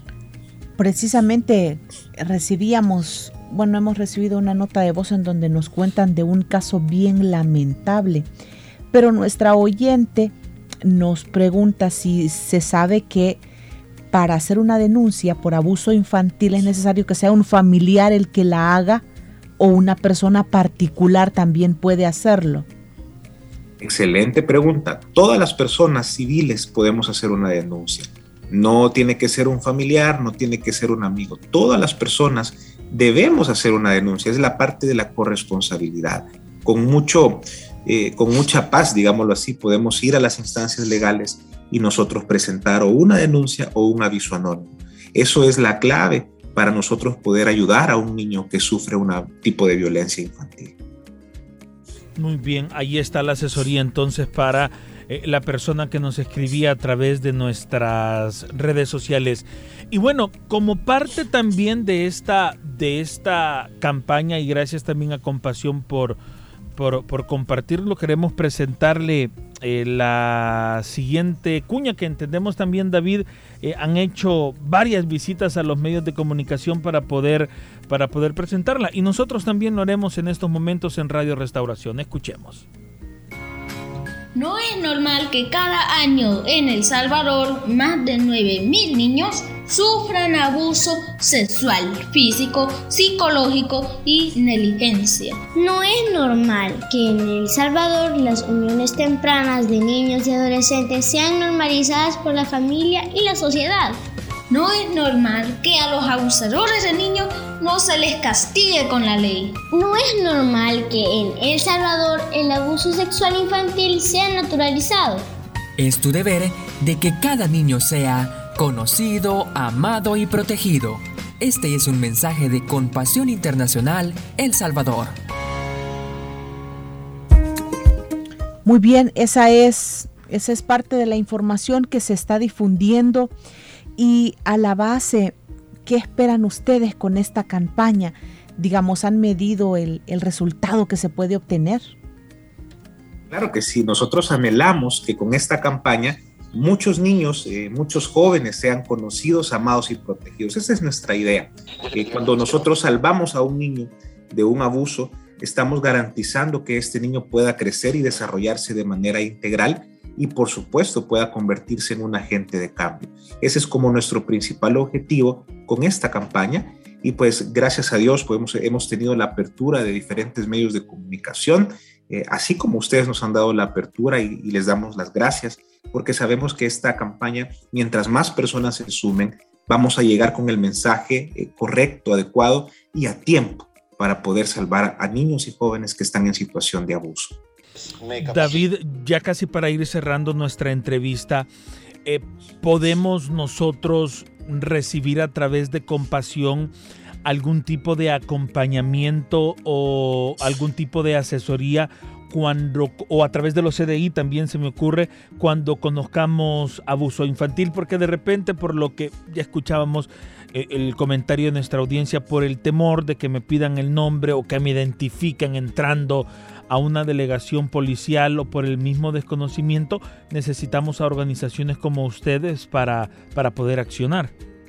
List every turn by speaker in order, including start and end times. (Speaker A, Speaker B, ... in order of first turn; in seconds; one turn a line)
Speaker A: 0.8-8.3
Speaker A: 8.9-13.4
Speaker A: 14.1-19.1
Speaker A: 19.6-22.7
Speaker B: 23.8-50.8
Speaker C: 52.2-66.2
Speaker C: 66.8-82.7
Speaker D: 84.3-95.4
Speaker E: 95.5-104.0
Speaker D: 104.5-109.6
Speaker E: 109.7-115.3
Speaker F: 115.8-125.2
Speaker A: 128.7-133.3
Speaker A: 134.0-141.9
Speaker B: 143.3-187.4
Speaker C: 188.2-191.5
Speaker C: 192.1-196.7
Speaker C: 197.2-224.3